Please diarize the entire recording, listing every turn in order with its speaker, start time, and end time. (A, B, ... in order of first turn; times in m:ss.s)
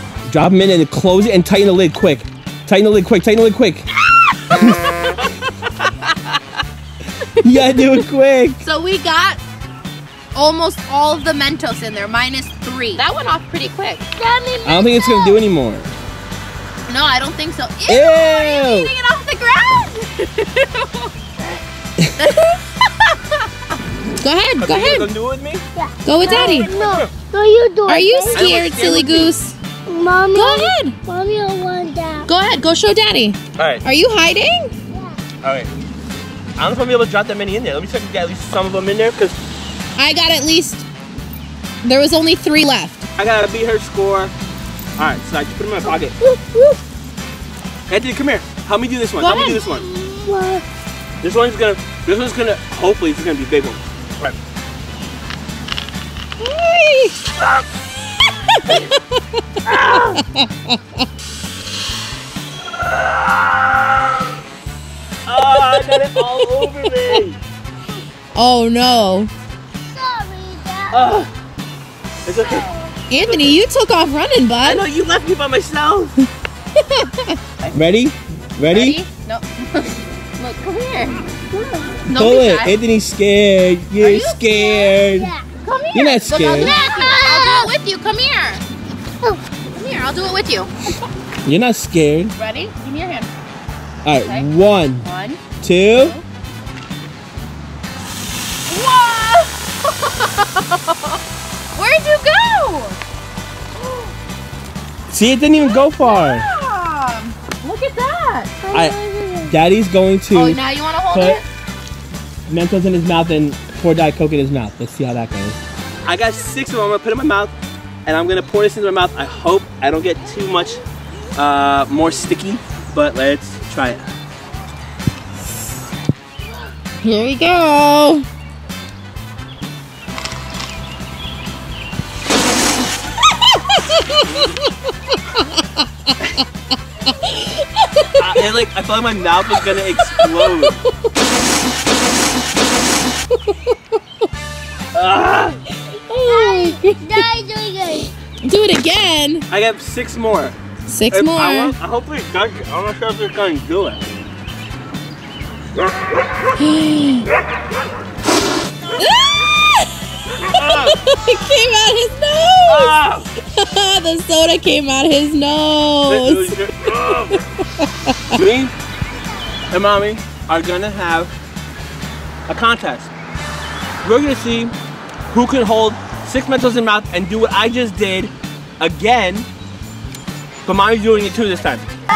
0:00.3-0:03.8 A
0:04.5-0:05.3 B
0:05.8-0:06.3 B
0:07.4-0:08.6 A
0:07.4-0:08.0 B
0:08.6-0:09.4 B
0:10.3-0:14.0 B
0:14.2-0:15.4 C
0:14.6-0:15.9 A
0:16.9-0:21.1 B
0:17.9-0:18.9 A
0:22.2-0:23.2 B
0:24.2-0:25.1 B
0:24.6-0:25.6 A
0:25.8-0:28.4 C
0:26.0-0:26.7 B
0:26.2-0:27.1 A
0:27.9-0:29.5 B
0:28.3-0:29.3 A
0:29.9-0:32.3 C
0:30.3-0:31.0 B
0:32.2-0:34.7 B
0:33.5-0:33.8 A
0:34.9-0:35.2 C
0:35.4-0:35.7 A
0:36.6-0:39.4 A
0:40.0-0:40.8 B
0:41.8-0:43.1 B
0:43.2-0:44.3 A
0:45.0-0:46.1 A
0:46.2-0:46.8 C
0:47.9-0:49.8 A
0:49.2-0:49.6 B
0:49.2-0:50.6 C
0:51.2-0:54.4 A
0:56.4-0:57.2 B
0:58.5-0:59.0 B
0:59.6-1:00.2 A
1:00.3-1:00.8 B
1:02.8-1:03.9 A
1:05.2-1:07.4 A
1:05.8-1:06.2 B
1:08.3-1:09.3 B
1:09.8-1:11.1 C
1:10.9-1:11.3 A
1:12.2-1:13.6 A
1:13.1-1:14.8 B
1:14.6-1:16.2 A
1:16.8-1:17.7 B
1:17.7-1:19.0 A
1:18.7-1:21.2 B
1:21.5-1:21.9 C
1:22.1-1:22.8 B
1:22.1-1:25.3 A
1:24.0-1:25.0 B
1:25.1-1:25.4 C
1:25.6-1:28.6 B
1:25.9-1:26.8 A
1:26.5-1:27.7 C
1:29.7-1:30.7 B
1:31.4-1:32.3 A
1:32.4-1:33.3 B
1:34.0-1:35.0 A
1:34.2-1:36.2 B
1:35.6-1:36.2 A
1:38.7-1:41.2 B
1:41.7-1:43.0 B
1:43.8-1:44.1 B
1:45.1-1:46.5 A
1:45.6-1:48.5 B
1:48.6-1:49.5 C
1:49.5-1:50.6 A
1:50.3-1:51.4 B
1:51.1-1:51.4 A
1:52.5-1:57.5 A
1:58.0-2:00.8 A
2:01.4-2:04.0 A
2:07.0-2:08.2 B
2:13.7-2:14.6 B
2:15.4-2:15.8 B
2:17.2-2:18.4 B
2:18.2-2:20.8 A
2:19.5-2:20.7 B
2:24.9-2:25.6 A
2:26.1-2:27.2 B
2:26.3-2:28.1 C
2:28.4-2:29.5 B
2:29.5-2:30.6 A
2:30.9-2:31.8 B
2:31.1-2:34.0 A
2:36.6-2:37.3 B
2:39.0-2:46.6 B
2:40.5-2:41.0 A
2:42.7-2:43.3 A
2:46.0-2:47.4 A
2:47.3-2:48.3 B
2:48.3-2:48.7 A
2:49.7-2:51.3 A
2:52.5-2:53.1 A
2:54.0-2:54.7 A
2:55.3-2:59.5 A
3:00.6-3:01.8 A